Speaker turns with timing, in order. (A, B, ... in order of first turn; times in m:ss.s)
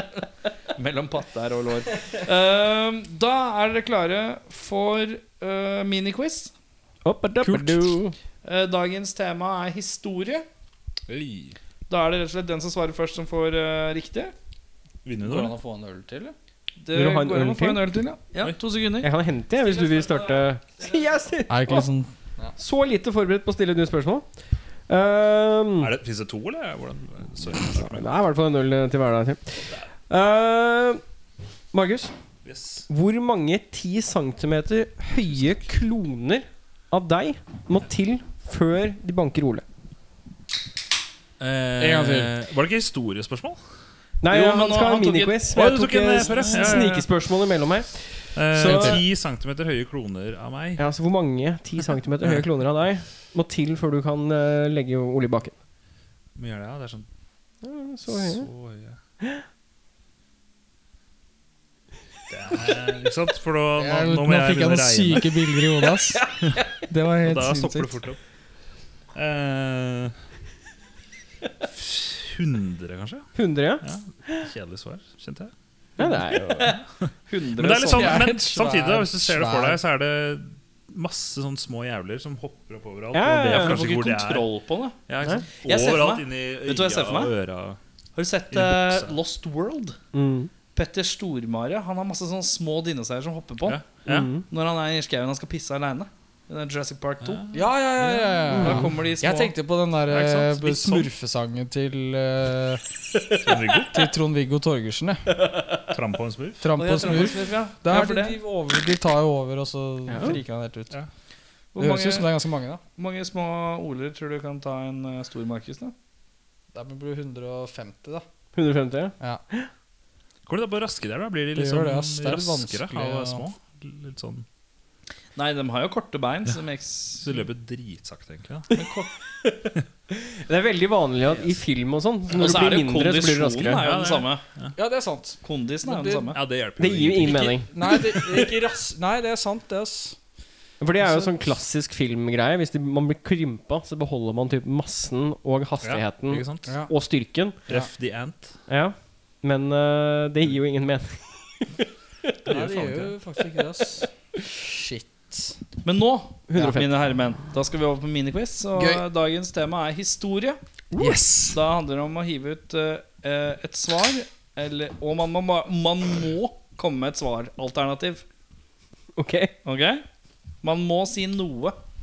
0:00.8-0:06.5 A
0:07.0-0:08.1 B
0:07.4-0:07.8 C
0:08.4-0:10.4 A
0:11.1-0:11.6 D
0:11.9-0:14.3 A
0:15.0-0:15.5 D
0:15.2-0:16.3 C
0:16.8-0:20.9 A
0:16.9-0:17.9 B
0:19.0-0:21.9 B
0:21.5-0:22.5 C
0:22.6-0:24.3 B
0:24.9-0:25.9 B
0:25.8-0:28.1 D
0:27.7-0:31.0 B
0:31.7-0:32.1 B
0:32.4-0:32.9 D
0:32.9-0:39.6 B
0:41.4-0:43.6 D
0:41.8-0:42.3 C
0:44.2-0:49.0 B
0:44.3-0:45.4 A
0:45.5-0:47.0 D
0:48.3-0:50.8 D
0:48.6-0:49.0 C
0:50.8-0:55.6 B
0:56.4-0:57.0 D
0:57.6-0:58.5 B
0:58.1-0:59.0 D
1:02.3-1:05.4 D
1:03.7-1:06.4 C
1:06.9-1:07.9 C
1:07.2-1:08.2 D
1:09.1-1:10.1 D
1:11.6-1:13.3 D
1:13.3-1:14.5 B
1:13.8-1:15.5 D
1:16.0-1:16.7 B
1:16.3-1:24.5 D
1:16.6-1:18.3 A
1:17.8-1:19.8 C
1:23.1-1:23.8 B
1:23.5-1:25.0 A
1:25.1-1:27.8 D
1:25.6-1:27.3 A
1:28.2-1:30.0 A
1:28.5-1:29.2 D
1:30.1-1:30.5 B
1:30.7-1:33.8 A
1:33.6-1:34.4 D
1:34.1-1:34.4 B
1:34.5-1:37.4 A
1:37.2-1:37.7 D
1:37.5-1:42.8 C
1:38.5-1:38.8 B
1:38.5-1:39.5 A
1:40.1-1:41.1 D
1:43.4-1:44.1 D
1:43.8-1:45.3 C
1:45.9-1:46.7 D
1:46.6-1:51.0 C
1:46.8-1:48.4 A
1:50.1-1:50.4 B
1:51.7-1:52.4 A
1:51.8-1:52.8 C
1:53.0-1:55.9 A
1:56.7-1:58.2 C
1:58.5-1:59.7 B
2:00.4-2:04.4 D
2:01.5-2:03.5 C
2:05.4-2:07.4 A
2:07.2-2:08.7 D
2:08.8-2:09.0 A
2:09.4-2:13.8 B
2:12.3-2:14.4 A
2:13.7-2:14.7 D
2:14.8-2:16.4 C
2:15.4-2:16.4 A
2:16.3-2:17.6 D
2:16.8-2:18.3 B
2:17.6-2:20.2 C
2:20.8-2:27.6 B
2:21.0-2:21.4 C
2:25.8-2:26.7 D
2:26.6-2:26.9 C
2:27.7-2:28.6 D
2:28.7-2:31.8 B
2:32.4-2:35.6 C
2:32.5-2:33.1 D
2:35.8-2:40.6 A
2:36.5-2:36.9 B
2:38.7-2:39.0 C
2:40.9-2:41.2 B
2:41.0-2:41.6 C
2:41.5-2:48.2 A
2:49.2-2:49.5 B
2:49.6-2:50.0 A
2:50.6-2:51.8 A